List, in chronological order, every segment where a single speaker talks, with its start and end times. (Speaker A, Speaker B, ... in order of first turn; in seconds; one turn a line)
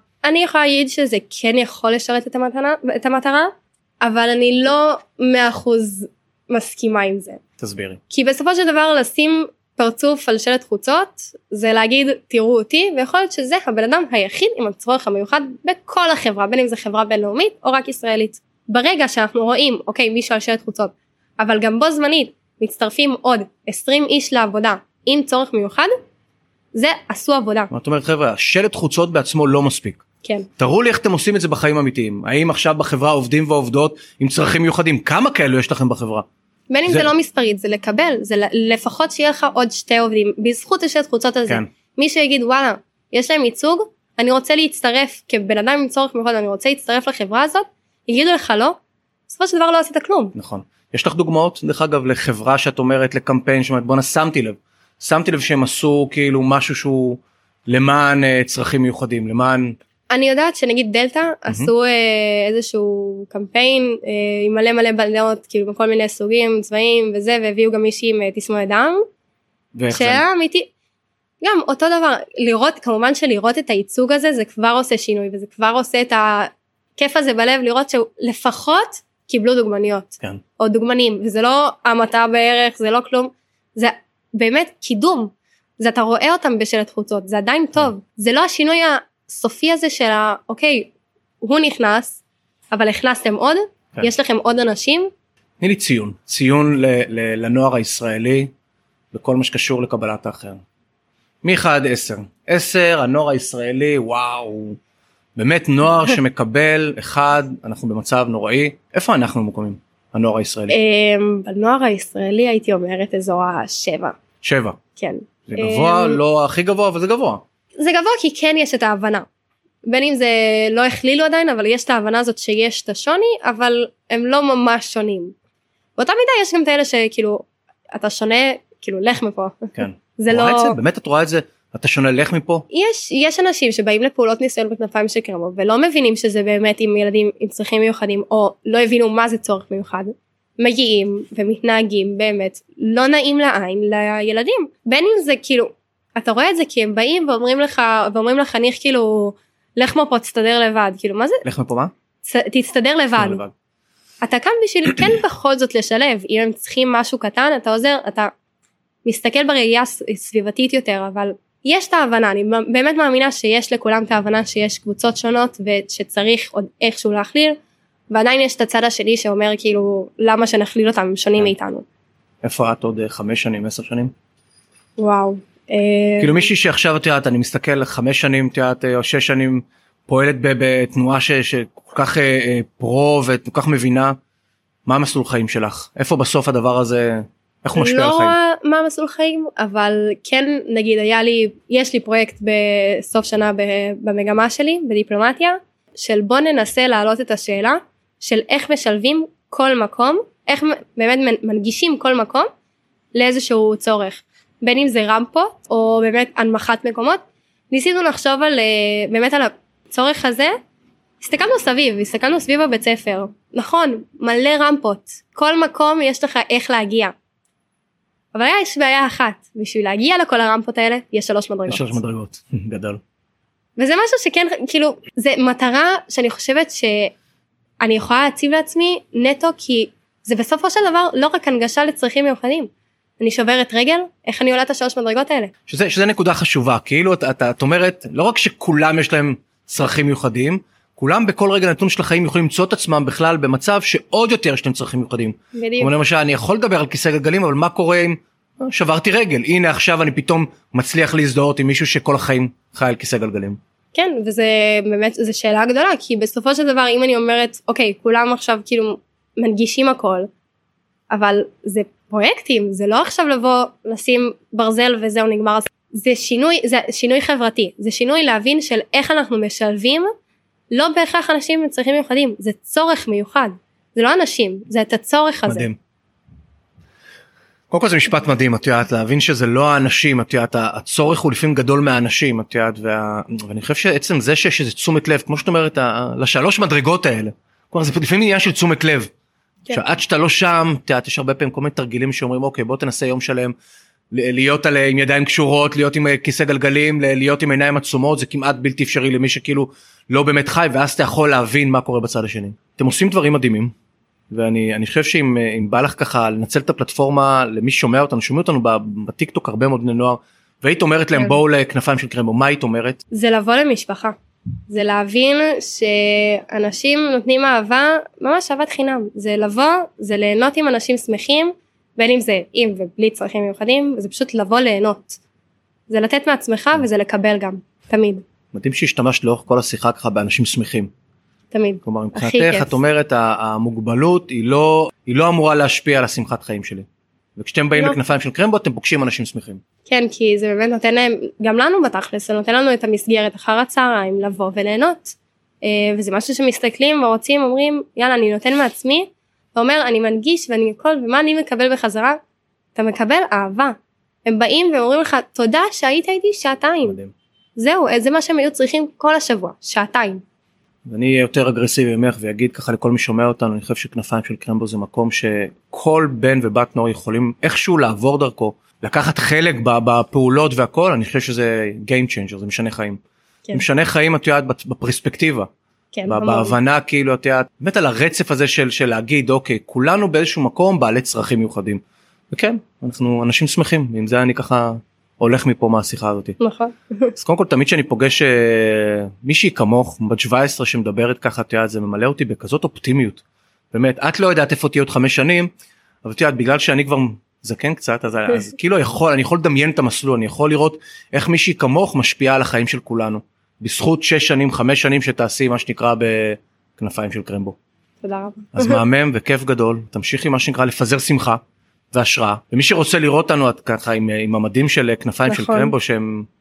Speaker A: 0.2-7.4
Speaker B: 7.6-8.0
Speaker A: 8.1-25.9
Speaker A: 26.7-27.7
Speaker B: 27.7-30.0
Speaker B: 30.6-36.2
Speaker A: 36.7-48.8
Speaker A: 49.3-50.3
Speaker B: 50.3-59.8
Speaker A: 60.1-69.0
Speaker B: 69.7-70.2
Speaker A: 69.9-70.7
Speaker A: 71.4-92.2
Speaker A: 92.7-95.1
Speaker B: 95.6-98.5
Speaker B: 99.1-100.6
Speaker B: 101.4-104.8
Speaker B: 105.3-110.7
Speaker A: 110.7-114.2
Speaker B: 114.4-114.8
Speaker A: 115.0-116.2
Speaker B: 115.5-117.4
Speaker A: 117.8-119.2
Speaker A: 119.8-125.3
Speaker A: 126.0-130.8
Speaker B: 129.7-132.6
Speaker A: 132.7-151.4
Speaker B: 151.4-151.9
Speaker A: 152.2-153.4
Speaker B: 153.2-153.5
Speaker A: 154.2-158.3
Speaker A: 159.0-167.6
Speaker A: 168.1-171.8
Speaker B: 172.4-174.1
Speaker A: 175.0-176.4
Speaker B: 176.2-184.1
Speaker B: 184.8-188.3
Speaker A: 187.8-202.5
Speaker A: 203.1-210.6
Speaker A: 211.2-217.1
Speaker A: 218.3-222.0
Speaker B: 221.7-223.0
Speaker A: 223.8-227.1
Speaker A: 227.8-235.5
Speaker B: 235.7-253.6
Speaker A: 245.5-245.9
Speaker A: 253.9-260.3
Speaker A: 261.1-270.1
Speaker A: 270.7-275.7
Speaker B: 275.5-275.8
Speaker B: 277.7-289.1
Speaker B: 289.7-293.5
Speaker B: 294.1-303.7
Speaker B: 304.3-313.0
Speaker A: 313.1-314.1
Speaker A: 314.7-325.2
Speaker A: 325.9-328.2
Speaker B: 328.5-330.9
Speaker A: 331.5-332.7
Speaker B: 331.8-336.9
Speaker B: 337.4-339.6
Speaker A: 339.9-352.2
Speaker A: 352.7-357.0
Speaker B: 356.9-357.1
Speaker A: 357.6-360.2
Speaker B: 360.9-373.0
Speaker B: 373.5-375.5
Speaker A: 375.9-376.5
Speaker B: 376.1-381.8
Speaker B: 382.3-386.4
Speaker A: 386.4-387.1
Speaker B: 387.1-395.5
Speaker B: 396.0-407.6
Speaker A: 408.0-408.8
Speaker B: 408.5-411.4
Speaker B: 411.9-416.3
Speaker A: 415.3-415.7